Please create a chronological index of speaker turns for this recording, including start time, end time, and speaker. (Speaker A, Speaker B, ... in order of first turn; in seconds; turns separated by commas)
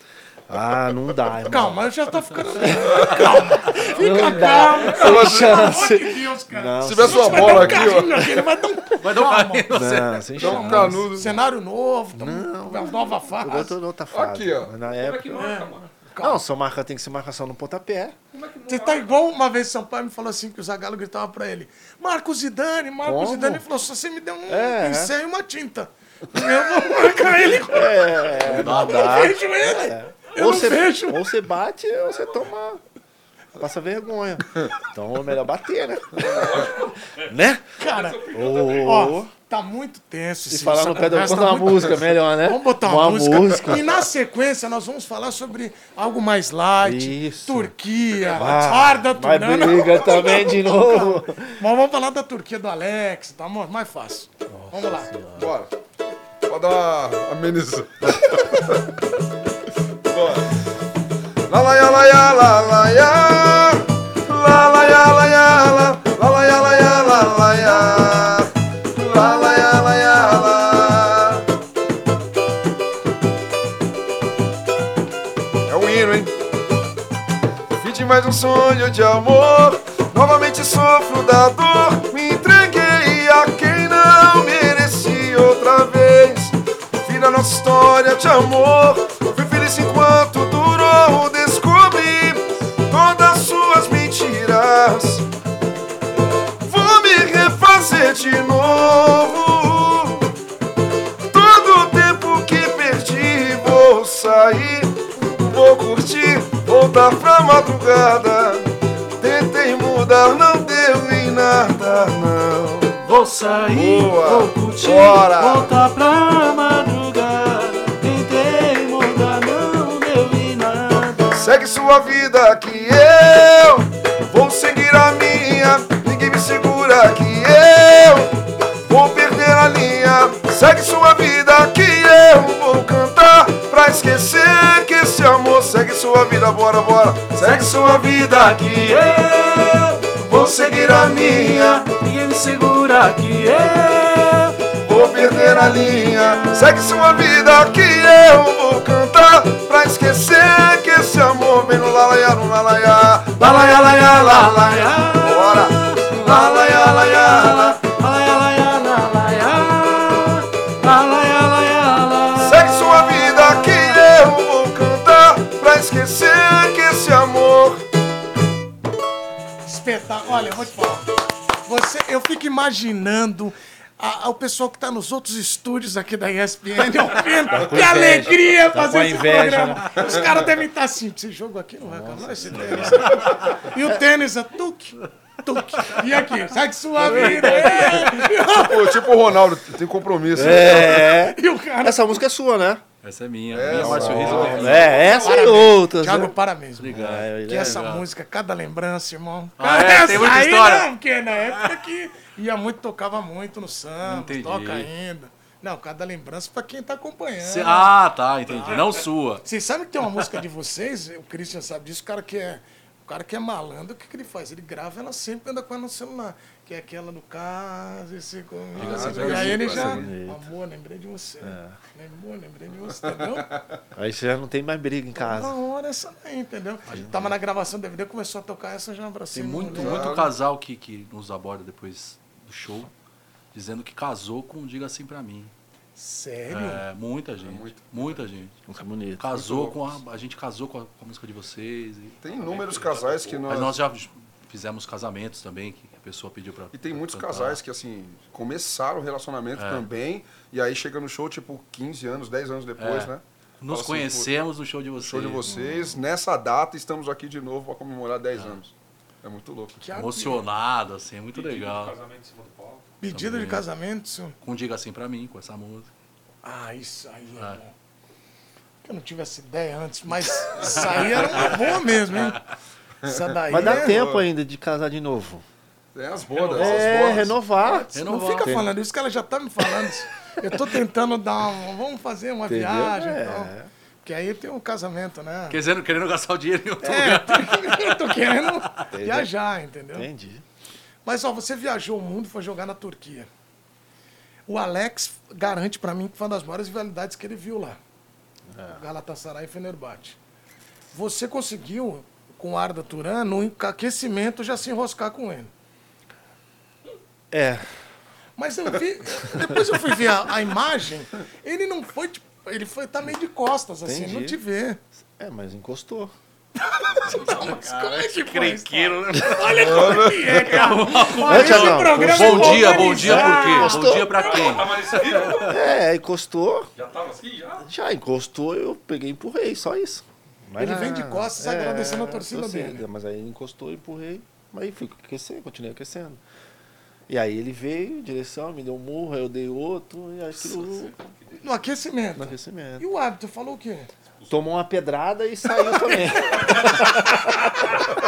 Speaker A: 0.5-1.9, Speaker B: 1.4-9.7, Speaker A: 2.4-8.7, Speaker C: 4.3-5.2, Speaker D: 5.0-5.8, Speaker D: 6.8-8.1, Speaker E: 9.0-11.0, Speaker A: 9.7-11.4, Speaker D: 10.4-11.3, Speaker B: 10.9-13.8, Speaker A: 12.1-15.5, Speaker D: 14.1-14.8, Speaker C: 14.9-15.9, Speaker B: 15.3-16.4, Speaker A: 16.2-18.2, Speaker C: 18.3-19.2, Speaker B: 18.7-31.2, Speaker A: 23.0-23.6, Speaker A: 24.5-25.1, Speaker A: 27.6-32.8, Speaker E: 28.4-29.4, Speaker A: 33.6-36.7, Speaker C: 36.2-37.3, Speaker A: 37.2-37.7, Speaker B: 37.8-55.1, Speaker C: 37.8-39.0, Speaker A: 38.3-39.3, Speaker A: 40.5-43.9, Speaker A: 46.8-47.7, Speaker A: 48.3-51.6, Speaker A: 54.5-55.5, Speaker D: 55.4-55.7, Speaker D: 56.5-58.8, Speaker D: 60.1-60.6, Speaker D: 61.5-71.5, Speaker D: 75.7-76.4, Speaker D: 77.8-95.3, Speaker D: 96.6-100.3, Speaker D: 101.3-113.0, Speaker E: 113.0-121.5, Speaker D: 113.7-115.7, Speaker D: 121.3-139.2, Speaker E: 137.4-144.6, Speaker D: 140.3-141.9, Speaker D: 144.7-157.8, Speaker E: 145.2-146.9, Speaker E: 153.4-164.0, Speaker D: 162.4-167.8, Speaker B: 169.7-189.2, Speaker A: 177.5-180.3, Speaker A: 181.8-184.0, Speaker D: 187.0-191.1, Speaker E: 187.1-188.2, Speaker A: 190.3-192.8, Speaker B: 190.4-192.2, Speaker E: 193.0-195.0, Speaker D: 193.5-195.0, Speaker A: 193.7-196.4, Speaker C: 193.9-195.6, Speaker B: 195.1-207.9, Speaker E: 196.8-198.1, Speaker A: 196.9-197.8, Speaker E: 199.6-200.9, Speaker E: 201.5-201.8, Speaker E: 204.0-204.9, Speaker E: 207.4-209.4, Speaker B: 208.5-223.5, Speaker E: 218.8-219.9, Speaker D: 218.8-220.1, Speaker A: 219.2-220.5, Speaker A: 221.4-221.8, Speaker D: 223.0-223.8, Speaker A: 223.9-225.6, Speaker B: 225.2-230.1, Speaker E: 226.9-227.2, Speaker A: 226.9-227.3, Speaker E: 229.3-232.9, Speaker D: 229.7-230.3, Speaker E: 233.5-235.5, Speaker B: 236.0-236.9, Speaker E: 236.5-238.6, Speaker D: 237.4-238.2, Speaker A: 238.7-239.9, Speaker E: 239.2-242.2, Speaker D: 242.2-243.8, Speaker C: 242.3-243.5, Speaker E: 243.5-247.6, Speaker D: 246.7-254.3, Speaker E: 249.6-249.9, Speaker E: 252.8-255.4, Speaker D: 255.0-259.8, Speaker A: 255.4-256.0, Speaker B: 259.8-260.4, Speaker E: 259.9-261.9, Speaker C: 261.3-262.9, Speaker B: 263.0-264.4, Speaker E: 263.1-263.6, Speaker E: 264.4-265.9, Speaker B: 266.4-267.7, Speaker B: 268.8-272.4, Speaker E: 270.6-272.4, Speaker B: 273.0-274.0, Speaker D: 273.1-274.2, Speaker A: 273.5-275.4, Speaker D: 275.9-277.4, Speaker A: 276.5-277.9, Speaker B: 277.6-285.6, Speaker E: 277.9-278.6, Speaker A: 278.4-278.7, Speaker A: 282.5-283.7, Speaker E: 285.5-288.5, Speaker B: 286.8-290.1, Speaker A: 288.9-289.3, Speaker A: 289.9-290.4, Speaker B: 291.1-293.3, Speaker B: 294.5-297.8, Speaker A: 298.5-298.8, Speaker B: 298.7-300.2, Speaker B: 300.9-305.5, Speaker A: 307.3-307.6, Speaker B: 308.4-314.8, Speaker A: 309.3-309.6, Speaker A: 313.9-314.4, Speaker A: 315.0-316.1, Speaker B: 316.6-324.6, Speaker E: 317.2-325.5, Speaker D: 319.5-320.6, Speaker A: 321.2-324.1, Speaker C: 324.1-325.6, Speaker A: 325.4-326.7, Speaker C: 326.8-327.7, Speaker A: 327.6-336.2, Speaker B: 330.6-332.9, Speaker A: 337.1-340.9, Speaker C: 340.6-341.4, Speaker B: 341.4-343.9, Speaker A: 342.2-342.9, Speaker A: 344.3-347.3, Speaker B: 345.6-346.9, Speaker C: 346.4-346.8